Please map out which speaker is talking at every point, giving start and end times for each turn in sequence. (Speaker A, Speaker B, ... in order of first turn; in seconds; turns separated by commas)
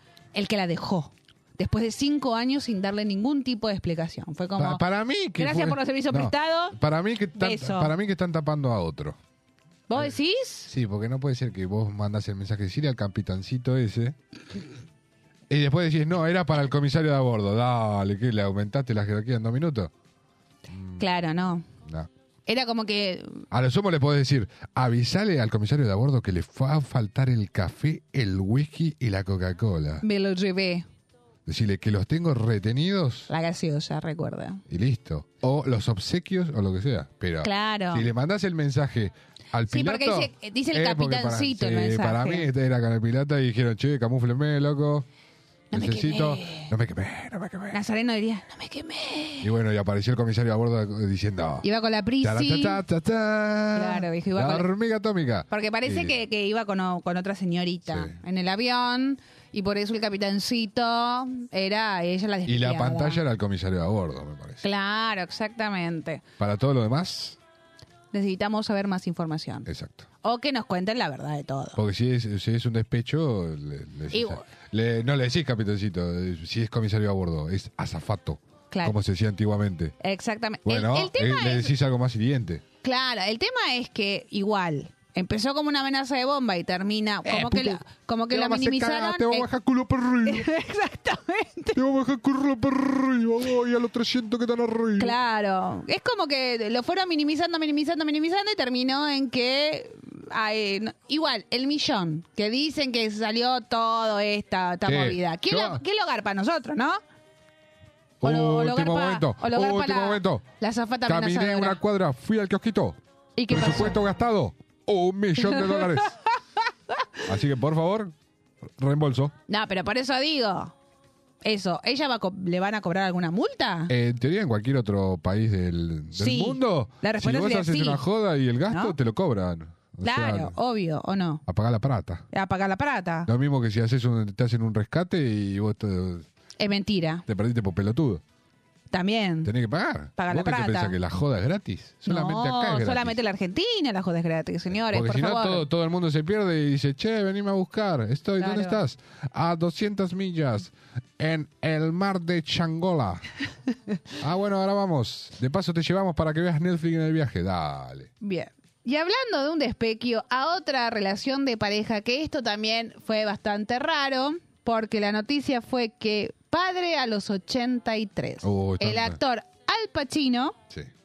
Speaker A: 0.3-4.8, Speaker B: 4.6-9.2, Speaker A: 5.4-6.8, Speaker A: 7.4-7.9, Speaker A: 9.9-10.7, Speaker B: 10.7-14.2, Speaker B: 15.5-19.9, Speaker B: 20.7-21.1, Speaker A: 21.0-21.6, Speaker B: 21.8-22.1, Speaker A: 22.5-23.4, Speaker B: 23.5-30.0, Speaker A: 30.0-30.9, Speaker B: 31.4-33.3, Speaker A: 33.3-34.6, Speaker B: 34.7-45.0, Speaker A: 37.4-38.1, Speaker A: 39.7-42.5, Speaker A: 45.7-46.7, Speaker B: 45.7-47.8, Speaker A: 47.7-49.5, Speaker B: 49.4-51.6, Speaker A: 51.6-52.8, Speaker B: 52.2-56.1, Speaker A: 53.7-54.7, Speaker A: 55.5-63.2, Speaker B: 57.9-58.2, Speaker B: 62.5-64.7, Speaker A: 64.6-66.2, Speaker B: 66.4-67.4, Speaker A: 68.1-69.7, Speaker B: 69.6-70.1, Speaker A: 70.2-71.8, Speaker B: 71.8-79.9, Speaker A: 74.1-74.4, Speaker A: 78.7-79.0, Speaker A: 80.0-81.7, Speaker B: 80.6-82.6, Speaker A: 82.8-89.5, Speaker B: 87.2-90.5, Speaker A: 90.2-91.8, Speaker B: 91.7-95.2, Speaker A: 95.0-107.0, Speaker B: 104.8-105.8, Speaker B: 108.2-110.5, Speaker A: 108.2-111.8, Speaker B: 111.0-113.0, Speaker A: 113.4-114.0, Speaker B: 113.5-116.1, Speaker A: 115.4-115.9, Speaker B: 117.2-118.1, Speaker B: 118.8-119.3, Speaker A: 119.5-120.7, Speaker A: 121.4-123.9, Speaker B: 123.9-130.5, Speaker A: 126.1-128.0, Speaker A: 128.7-128.9, Speaker A: 130.0-131.4, Speaker B: 131.4-132.2, Speaker A: 132.3-133.3, Speaker B: 133.2-136.2, Speaker A: 136.6-137.2, Speaker B: 137.2-138.2, Speaker A: 138.9-139.5, Speaker B: 139.4-143.2, Speaker A: 140.2-140.9, Speaker A: 142.1-145.6, Speaker B: 144.7-153.2, Speaker A: 148.4-148.8, Speaker B: 154.2-158.1, Speaker A: 158.2-170.6, Speaker B: 168.4-169.2